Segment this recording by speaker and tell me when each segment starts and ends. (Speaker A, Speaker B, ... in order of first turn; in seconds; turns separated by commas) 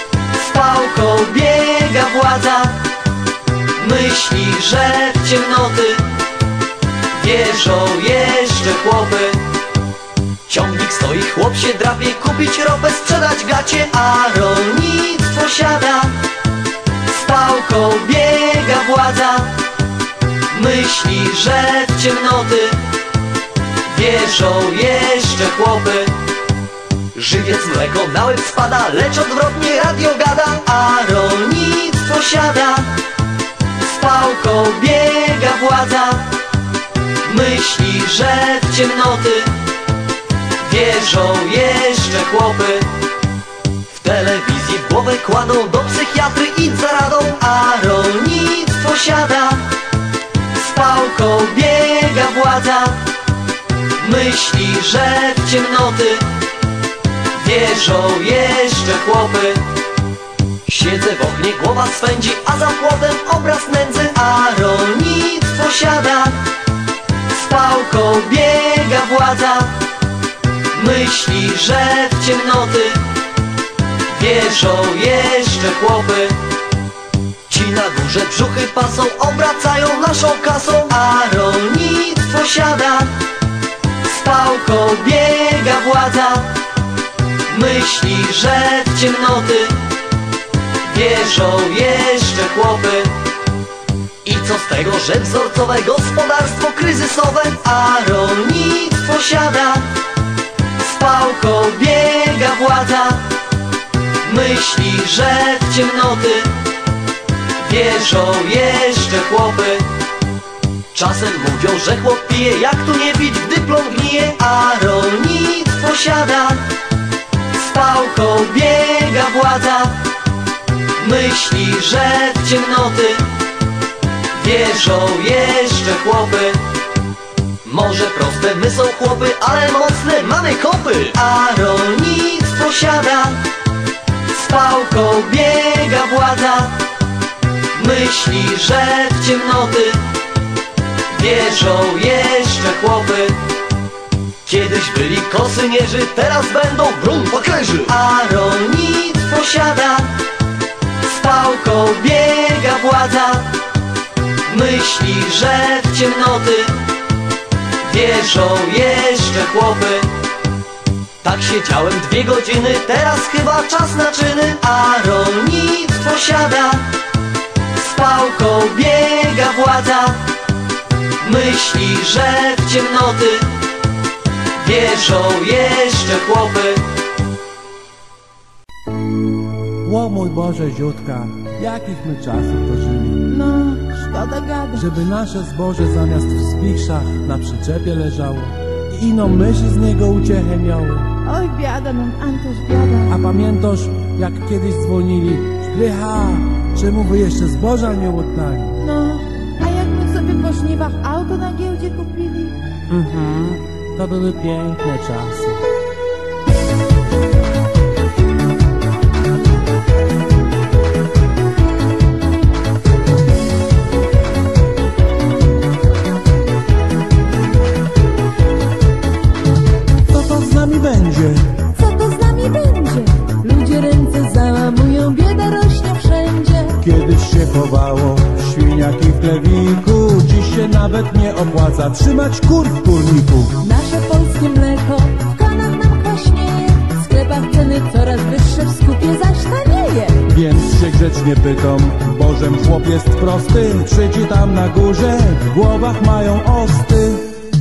Speaker A: 0.3-2.8, Speaker A: 3.8-6.1, Speaker A: 7.1-9.4, Speaker A: 10.5-16.2, Speaker A: 17.1-19.6, Speaker A: 20.5-22.8, Speaker A: 23.9-26.1, Speaker A: 27.1-32.9, Speaker A: 33.8-36.3, Speaker A: 37.2-39.6, Speaker A: 40.6-42.9, Speaker A: 43.9-49.7, Speaker A: 50.5-53.0, Speaker A: 54.0-56.3, Speaker A: 57.4-59.7, Speaker A: 60.7-66.4, Speaker A: 67.3-69.8, Speaker A: 70.7-73.0, Speaker A: 74.1-76.4, Speaker A: 77.5-83.2, Speaker A: 84.0-86.6, Speaker A: 87.5-89.8, Speaker A: 90.8-93.2, Speaker A: 94.2-99.9, Speaker A: 100.8-103.3, Speaker A: 104.2-106.5, Speaker A: 107.6-109.9, Speaker A: 110.9-116.7, Speaker A: 117.5-120.0, Speaker A: 121.0-123.3, Speaker A: 124.3-126.6, Speaker A: 127.7-133.4, Speaker A: 134.3-136.8, Speaker A: 137.7-140.1, Speaker A: 141.1-143.4, Speaker A: 144.5-150.1, Speaker A: 151.0-153.6, Speaker A: 154.5-156.8, Speaker A: 157.8-160.1, Speaker A: 161.2-166.9, Speaker A: 167.7-170.2, Speaker A: 171.2-173.5, Speaker A: 174.6-176.8, Speaker B: 179.8-183.3, Speaker C: 183.3-184.8, Speaker B: 184.7-191.2, Speaker C: 191.3-193.0, Speaker B: 193.1-198.8, Speaker C: 198.8-202.5, Speaker B: 202.9-205.6, Speaker B: 220.1-221.7, Speaker C: 221.8-226.7, Speaker B: 226.8-233.6, Speaker C: 233.7-240.1, Speaker B: 240.2-247.3